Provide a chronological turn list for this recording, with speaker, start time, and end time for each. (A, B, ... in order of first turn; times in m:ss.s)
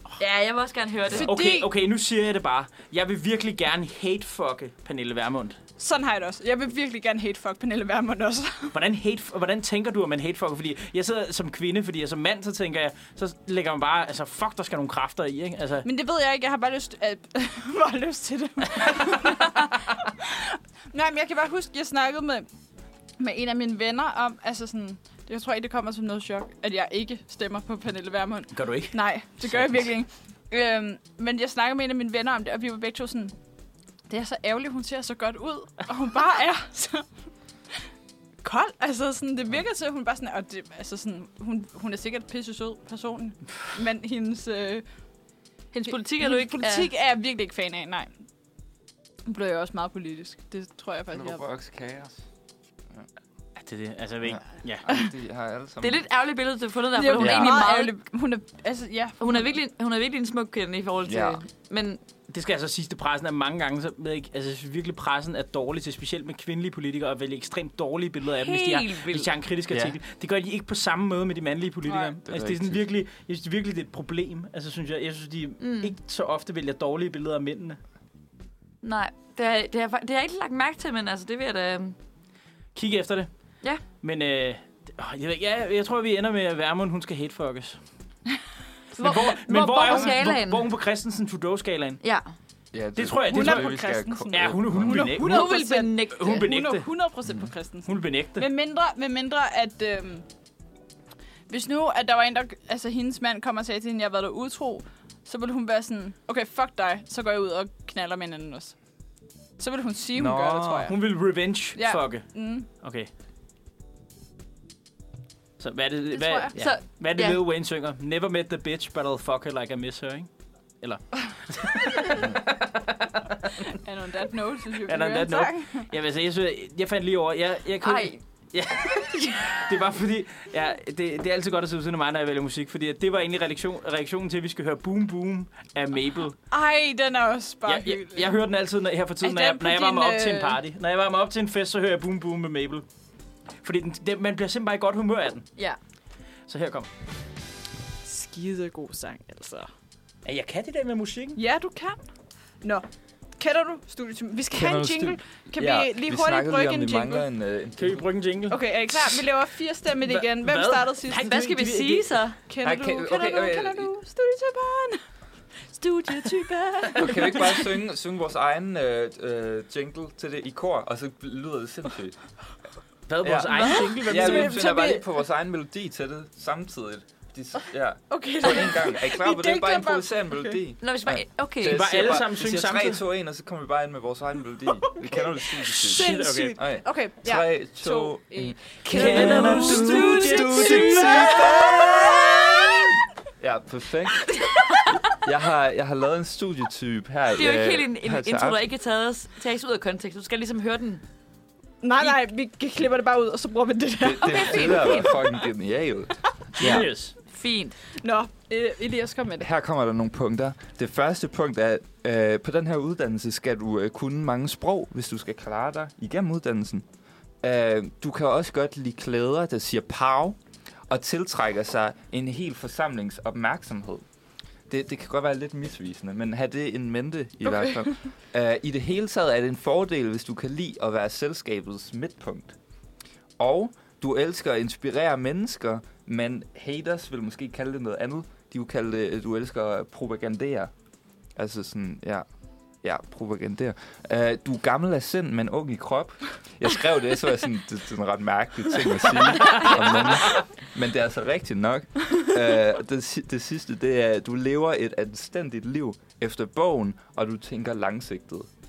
0:00.2-0:01.3 A
0:01.2-0:01.7 B
0:01.2-0:05.6 C
0:05.8-0:08.8 B
0:08.7-0:15.8 C
0:15.8-0:22.5 B
0:23.2-0:33.4 B
0:28.5-0:29.0 C
0:34.1-0:37.0 B
0:38.4-0:44.8 B
0:45.7-0:46.9 A
0:45.9-0:48.1 B
0:49.2-0:51.4 B
0:51.1-0:52.2 D
0:53.6-0:54.8 C
0:54.3-0:56.0 D
0:55.8-0:57.9 A
0:57.0-0:59.2 B
0:57.2-0:57.5 D
0:59.2-1:02.0 A
1:01.0-1:01.4 D
1:02.3-1:17.8 C
1:08.4-1:09.3 A
1:11.9-1:12.1 B
1:12.2-1:12.8 D
1:15.6-1:15.9 A
1:18.8-1:21.9 A
1:22.7-1:23.3 C
1:23.9-1:27.8 C
1:28.9-1:32.0 C
1:29.0-1:30.7 A
1:29.8-1:30.2 B
1:32.0-1:32.3 A
1:32.7-1:35.2 D
1:33.0-1:33.8 C
1:33.3-1:40.2 B
1:34.3-1:35.5 C
1:35.2-1:36.6 A
1:36.1-1:36.9 C
1:37.8-1:38.5 C
1:41.5-1:48.8 B
1:49.6-1:51.0 B
1:50.1-1:50.9 D
1:50.8-1:53.1 C
1:51.7-1:52.7 B
1:55.6-2:00.3 C
1:56.1-1:56.5 B
1:56.5-1:57.4 A
2:00.8-2:03.4 C
2:03.7-2:05.9 B
2:04.8-2:16.4 C
2:07.8-2:08.2 A
2:08.7-2:09.6 A
2:16.5-2:18.3 B
2:17.6-2:22.8 C
2:19.2-2:20.6 B
2:23.6-2:25.4 C
2:26.5-2:26.9 C
2:28.0-2:29.7 B
2:30.2-2:31.4 C
2:31.4-2:32.0 B
2:33.4-2:37.3 B
2:34.5-2:38.1 D
2:37.8-2:39.2 C
2:38.5-2:41.3 B
2:40.0-2:42.1 C
2:41.1-2:42.4 A
2:42.5-2:45.0 B
2:42.6-2:43.9 D
2:45.7-2:47.8 B
2:46.9-2:52.1 D
2:53.1-2:54.6 C
2:53.2-3:12.8 D
2:53.5-2:55.0 B
2:58.1-3:00.6 B
3:00.8-3:01.8 A
3:01.6-3:03.0 C
3:05.6-3:09.8 B
3:05.8-3:06.6 C
3:08.8-3:12.6 A
3:08.9-3:11.4 C
3:10.4-3:12.9 B
3:13.4-3:14.4 D
3:14.3-3:14.8 A
3:15.1-3:18.6 D
3:17.4-3:21.0 A
3:21.8-3:25.4 B
3:24.0-3:26.9 D
3:24.2-3:25.1 A
3:26.6-3:27.1 C
3:27.3-3:27.8 A
3:28.0-3:29.5 B
3:29.4-3:36.8 D
3:37.4-3:40.4 D
3:40.9-3:44.0 D
3:44.7-3:52.6 D
3:47.5-3:48.0 B
3:53.4-4:00.7 D
4:01.4-4:02.2 D
4:02.8-4:18.5 D